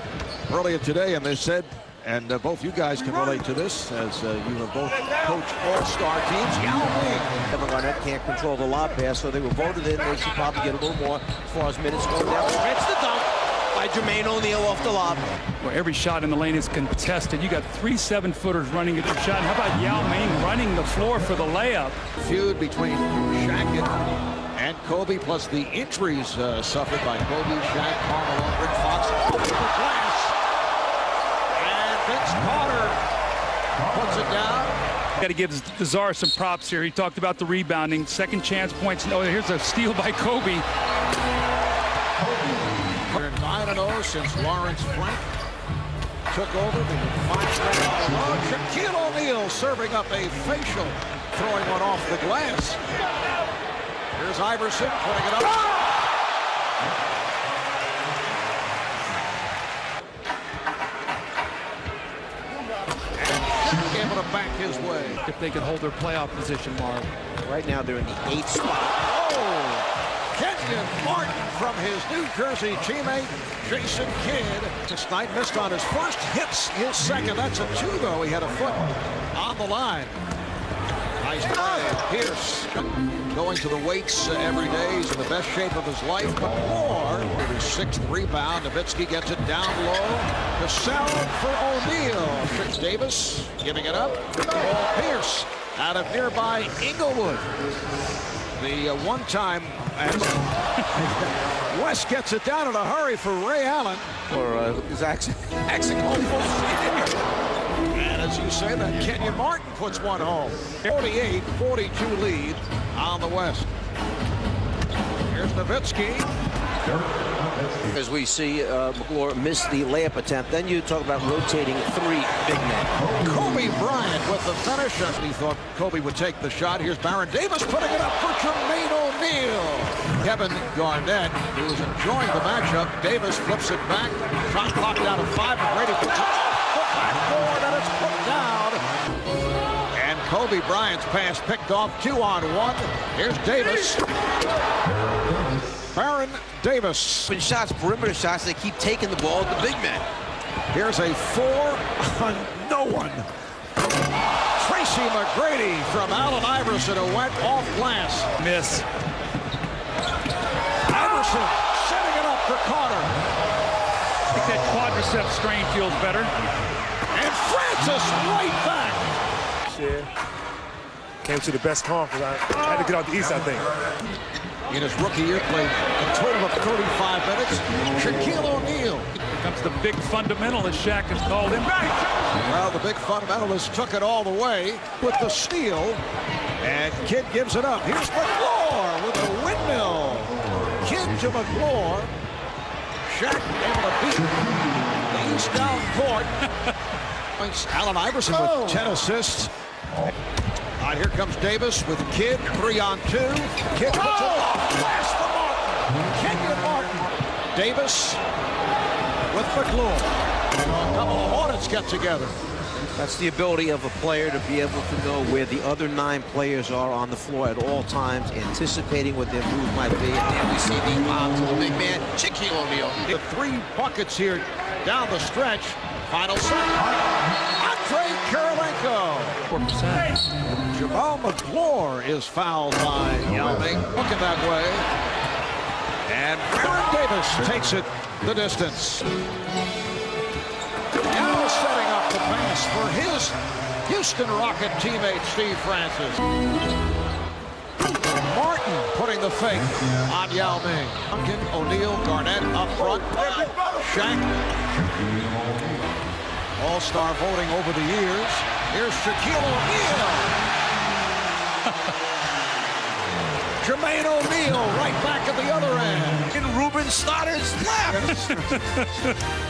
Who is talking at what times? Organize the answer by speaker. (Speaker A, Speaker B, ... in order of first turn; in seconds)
Speaker A: 0.5-7.4, 22.1-24.0, 24.5-30.4, 31.5-33.0, 33.9-34.7, 43.0-45.3, 46.3-53.0, 54.1-55.7, 63.2-65.2, 69.0-80.2, 81.2-97.5, 98.6-104.1, 107.9-113.7, 115.3-116.3, 123.2-138.8, 139.9-144.0, 145.9-147.3, 150.7-153.3, 154.6-158.3, 160.9-163.1, 167.1-169.1, 174.7-179.1, 182.4-186.0, 186.6-192.1, 193.0-194.4, 195.1-196.4, 197.4-199.5, 200.8-208.2, 209.3-212.3, 223.0-226.9, 227.6-229.4, 230.4-234.9, 236.1-239.1, 241.1-246.2, 248.0-254.3, 256.6-260.4, 263.6-266.3
Speaker B: 7.5-15.3, 67.4-69.0, 104.3-107.2, 117.8-122.9, 147.3-150.1, 212.9-223.0, 266.3-268.7
Speaker C: 15.6-21.9, 35.2-40.6, 65.2-67.1, 158.4-158.8, 164.3-166.3, 179.3-181.9, 229.5-230.1, 268.1-268.9
Speaker D: 169.7-170.1, 171.2-173.7